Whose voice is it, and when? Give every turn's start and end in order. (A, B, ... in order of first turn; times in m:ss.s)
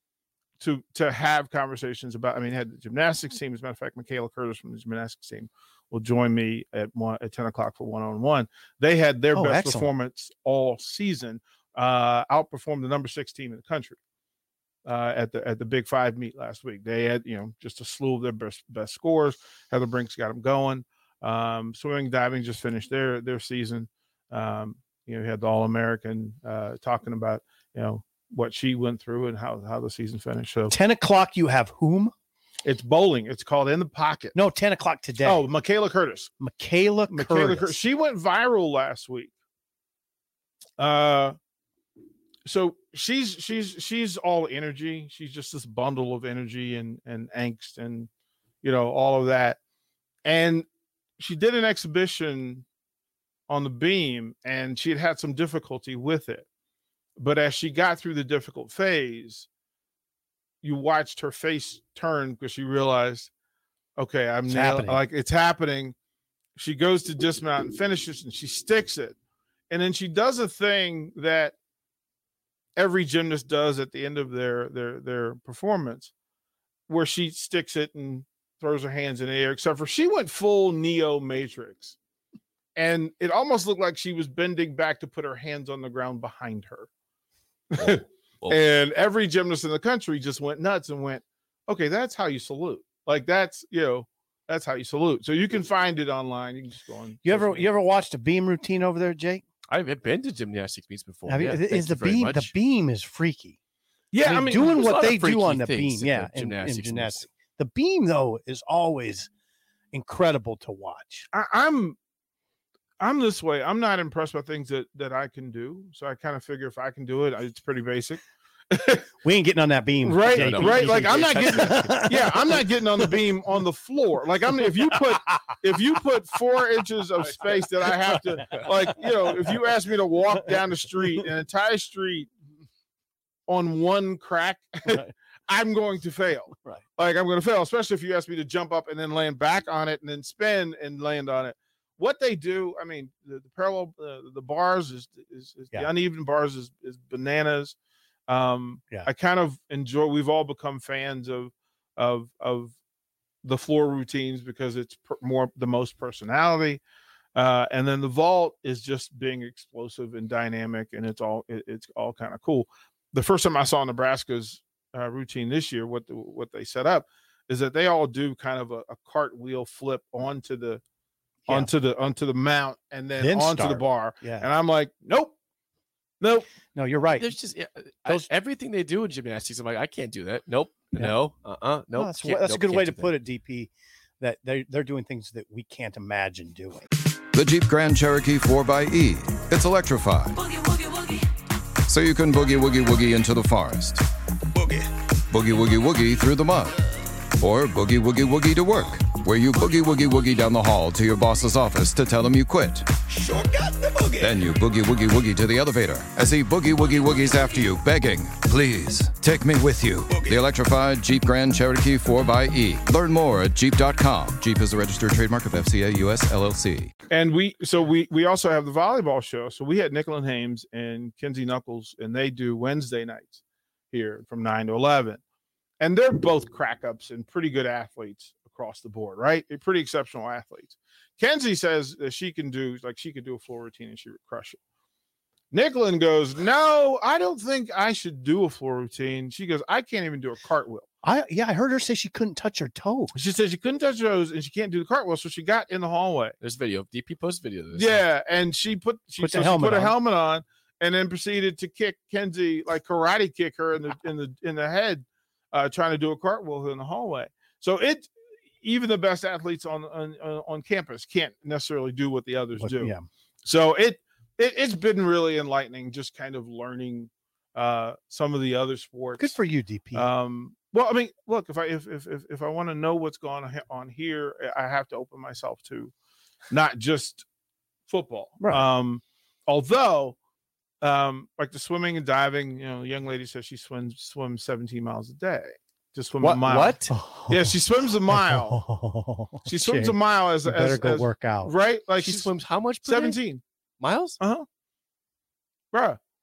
0:00.6-0:14.0 A
0:09.3-0:09.9 B
0:14.8-0:30.8 A
0:30.7-0:32.1 B
0:32.6-0:34.4 A
0:34.4-0:35.4 B
0:35.2-0:36.3 A
0:36.4-0:37.8 B
0:37.1-0:39.3 A
0:40.8-0:41.4 A
0:42.5-0:48.1 A
0:48.6-0:49.6 A
0:50.2-0:50.7 A
0:51.2-0:52.6 A
0:53.5-0:56.5 A
0:57.2-0:59.5 A
1:00.6-1:03.3 A
1:04.0-1:06.0 A
1:04.5-1:05.0 B
1:06.6-1:09.2 A
1:09.7-1:11.6 A
1:12.8-1:16.1 A
1:16.9-1:22.0 A
1:22.8-1:26.9 A
1:27.7-1:37.7 A
1:37.2-1:39.4 B
1:39.7-1:42.5 C
1:41.3-1:43.6 B
1:44.1-1:45.1 A
1:44.2-1:49.3 B
1:44.7-1:47.3 C
1:49.9-1:51.3 B
1:51.3-1:52.0 A
1:53.0-1:59.0 A
1:59.2-2:03.1 B
2:00.0-2:12.3 A
2:00.3-2:01.9 C
2:08.1-2:08.4 B
2:13.5-2:27.8 A
2:28.3-2:32.8 A
2:33.4-2:36.8 A
2:37.4-2:50.8 A
2:51.5-2:55.4 A
2:53.2-2:54.5 B
2:56.2-2:56.5 A
2:56.7-2:57.4 B
2:57.2-3:03.1 C
3:02.0-3:06.9 B
3:07.3-3:10.4 D
3:11.9-3:14.0 D
3:15.3-3:16.7 D
3:17.4-3:22.9 D
3:24.2-3:36.9 D
3:37.1-3:43.4 A
3:43.9-3:45.2 A
3:45.8-3:54.6 A
3:55.5-4:00.9 A
4:01.0-4:03.1 B
4:03.1-4:06.4 A
4:06.4-4:08.0 C
4:07.7-4:29.4 A
4:09.2-4:10.0 B
4:22.6-4:23.0 B
4:29.2-4:30.1 B
4:29.9-4:35.9 A
4:36.5-4:37.2 A
4:37.9-4:40.2 A
4:38.4-4:38.7 B
4:40.8-4:46.8 A
4:46.2-4:46.9 C
4:46.9-4:47.5 B
4:47.3-4:48.6 A
4:48.1-4:51.5 B
4:49.5-4:52.3 A
4:52.0-4:53.2 C
4:52.8-4:53.4 A
4:53.8-4:54.2 C
4:54.2-4:54.5 A
4:55.7-4:56.0 A